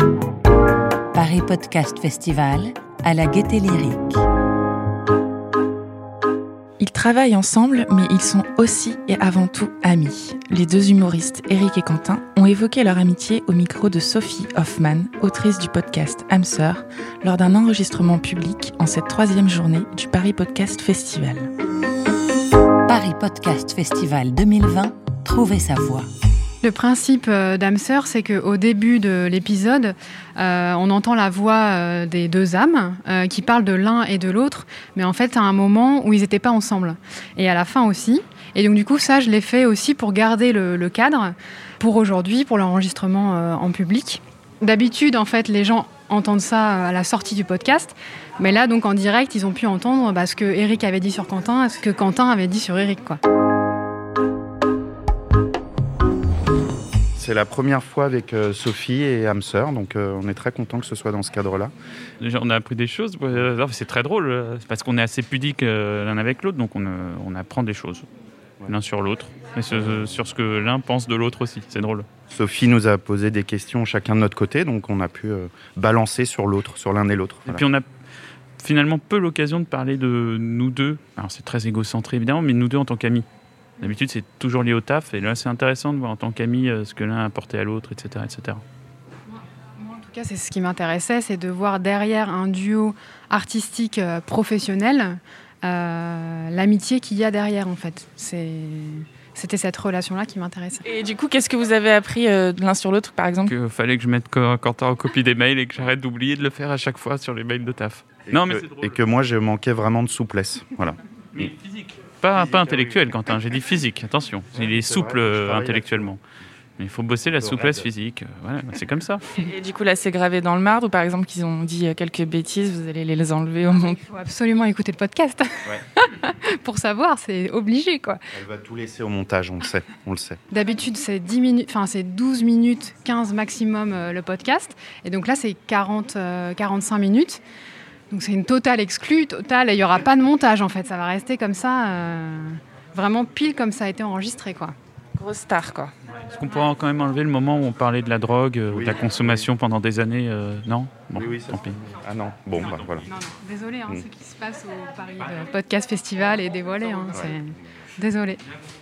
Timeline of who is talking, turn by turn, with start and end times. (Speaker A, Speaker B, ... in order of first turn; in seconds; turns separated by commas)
Speaker A: 1.1-4.2, Speaker B: 6.8-21.5, Speaker A: 22.9-26.1, Speaker C: 26.6-53.2, Speaker D: 57.1-61.7, Speaker E: 62.2-68.0, Speaker E: 68.7-72.0, Speaker D: 72.3-77.6, Speaker E: 77.5-77.8, Speaker E: 78.6-83.2, Speaker E: 83.8-88.6, Speaker C: 89.8-100.8, Speaker B: 100.8-103.5, Speaker E: 103.5-109.0, Speaker D: 108.3-111.5, Speaker E: 111.3-116.2, Speaker D: 112.3-113.1, Speaker D: 114.6-116.1, Speaker E: 116.8-119.2, Speaker D: 117.3-117.9, Speaker B: 119.4-124.0, Speaker C: 123.9-128.2, Speaker D: 128.3-130.4, Speaker C: 130.5-137.4, Speaker C: 138.1-144.7, Speaker B: 145.2-145.9, Speaker E: 146.3-151.8, Speaker D: 148.7-149.5, Speaker D: 151.1-153.1, Speaker C: 153.0-158.4